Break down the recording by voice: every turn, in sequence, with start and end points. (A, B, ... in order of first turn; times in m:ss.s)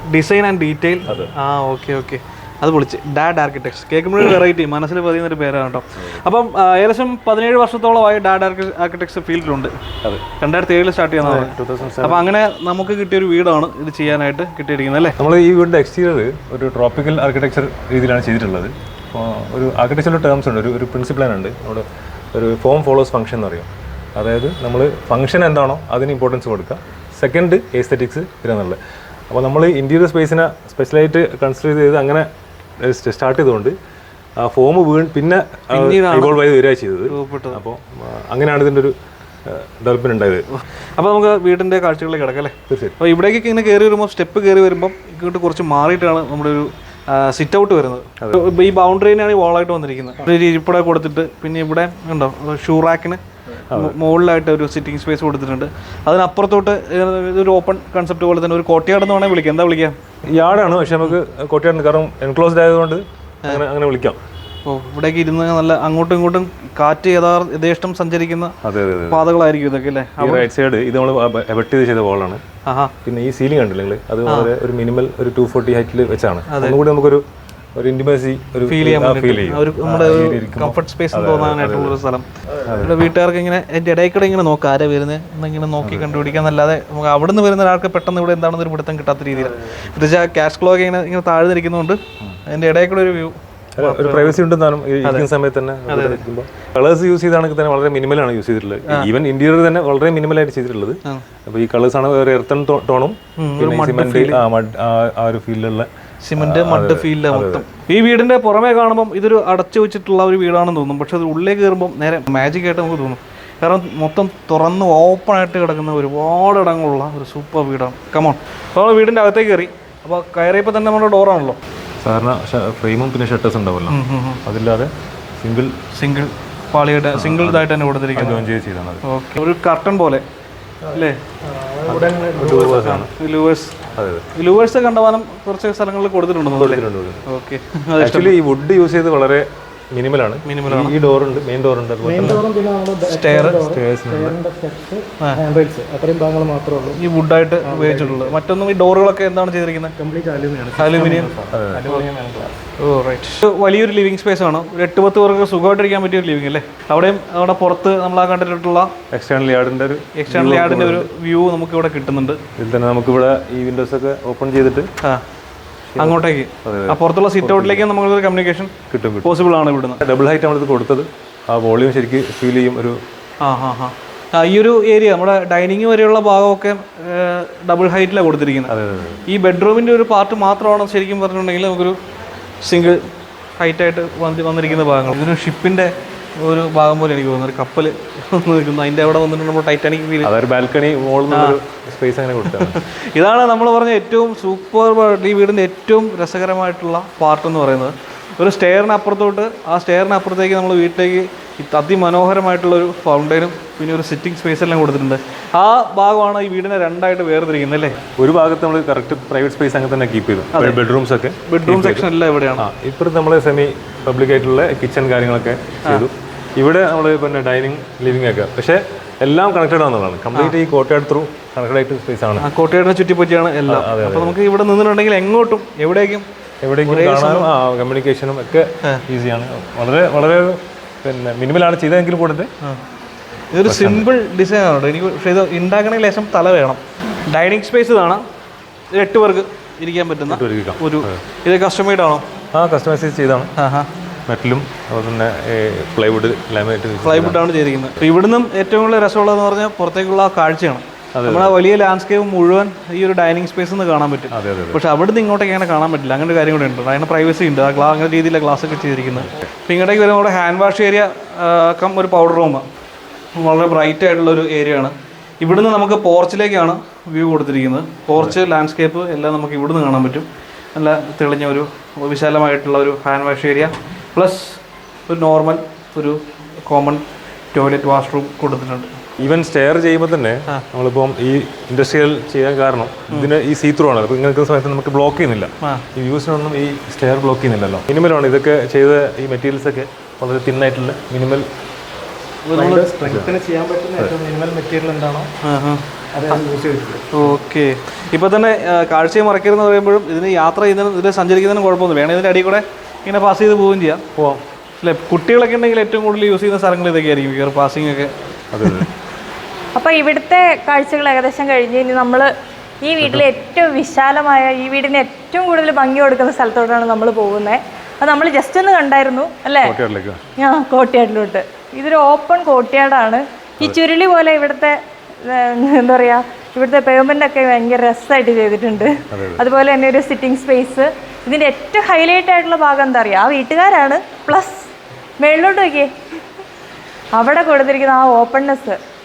0:00.1-0:09.8 A
0:01.0-0:01.3 B
0:10.4-0:15.2 A
0:11.2-0:12.3 B
0:15.2-0:32.3 B
0:32.8-0:33.7 B
0:34.4-0:40.4 B
0:35.7-0:36.4 A
0:37.1-0:37.6 A
0:41.0-1:00.0 A
0:42.7-0:43.0 B
0:53.7-0:54.0 B
1:00.3-1:04.2 B
1:04.6-1:08.5 A
1:08.6-1:09.2 B
1:09.1-1:10.5 A
1:10.2-1:12.4 B
1:12.6-1:12.9 A
1:13.0-1:22.0 B
1:14.2-1:14.5 A
1:16.5-1:16.8 A
1:18.7-1:22.2 A
1:22.6-1:23.0 B
1:22.8-1:34.4 A
1:25.8-1:26.2 B
1:33.8-1:47.6 B
1:35.0-1:35.3 A
1:35.9-1:36.2 A
1:43.4-1:44.4 A
1:46.2-2:01.6 A
2:02.0-2:05.8 B
2:03.9-2:04.4 A
2:05.9-2:08.4 A
2:07.1-2:09.0 B
2:09.0-2:10.2 A
2:10.8-2:12.9 C
2:10.9-2:11.2 A
2:11.8-2:13.1 B
2:12.8-2:13.8 A
2:13.9-2:14.3 B
2:14.3-2:18.3 A
2:16.5-2:17.2 B
2:18.0-2:22.4 B
2:20.4-2:20.9 A
2:22.0-2:27.0 C
2:23.0-2:23.6 A
2:23.7-2:24.4 B
2:27.0-2:29.9 A
2:27.6-2:28.4 C
2:30.0-2:32.5 C
2:30.8-2:31.3 A
2:31.5-2:31.9 B
2:32.8-2:38.9 A
2:39.1-2:41.1 B
2:40.2-2:42.4 A
2:42.6-2:44.9 B
2:45.9-2:47.8 B
2:46.0-2:50.0 A
2:48.9-2:49.4 B
2:50.0-2:53.0 B
2:53.4-2:58.7 A
2:58.7-2:59.2 B
2:59.3-3:02.0 A
3:02.6-3:10.3 A
3:10.2-3:12.8 B
3:11.3-3:11.6 A
3:12.5-3:28.0 A
3:28.2-3:42.5 B
3:30.5-3:30.8 A
3:31.4-3:32.6 A
3:42.4-3:46.2 A
3:43.6-3:44.4 B
3:46.6-3:52.5 B
3:46.8-3:47.5 A
3:53.5-3:58.2 A
3:53.6-3:54.1 B
3:58.9-4:02.2 A
4:00.3-4:01.2 B
4:02.5-4:03.5 B
4:03.6-4:03.9 A
4:04.3-4:07.4 B
4:07.0-4:22.6 A
4:11.1-4:11.6 B
4:14.3-4:14.8 B
4:19.2-4:19.5 B
4:23.4-4:39.0 A
4:39.2-4:51.5 B
4:52.4-4:52.8 A
4:52.5-4:55.3 C
4:53.0-4:53.4 B
4:55.4-4:55.8 A
4:56.1-4:57.0 C
4:57.1-5:04.0 A
5:04.2-5:04.4 B
5:04.8-5:08.9 A
5:08.5-5:08.9 B
5:09.7-5:12.3 D
5:12.8-5:19.8 D
5:13.0-5:13.2 B
5:19.6-5:20.2 B
5:20.4-5:35.9 D
5:29.1-5:29.4 B
5:37.1-5:38.8 D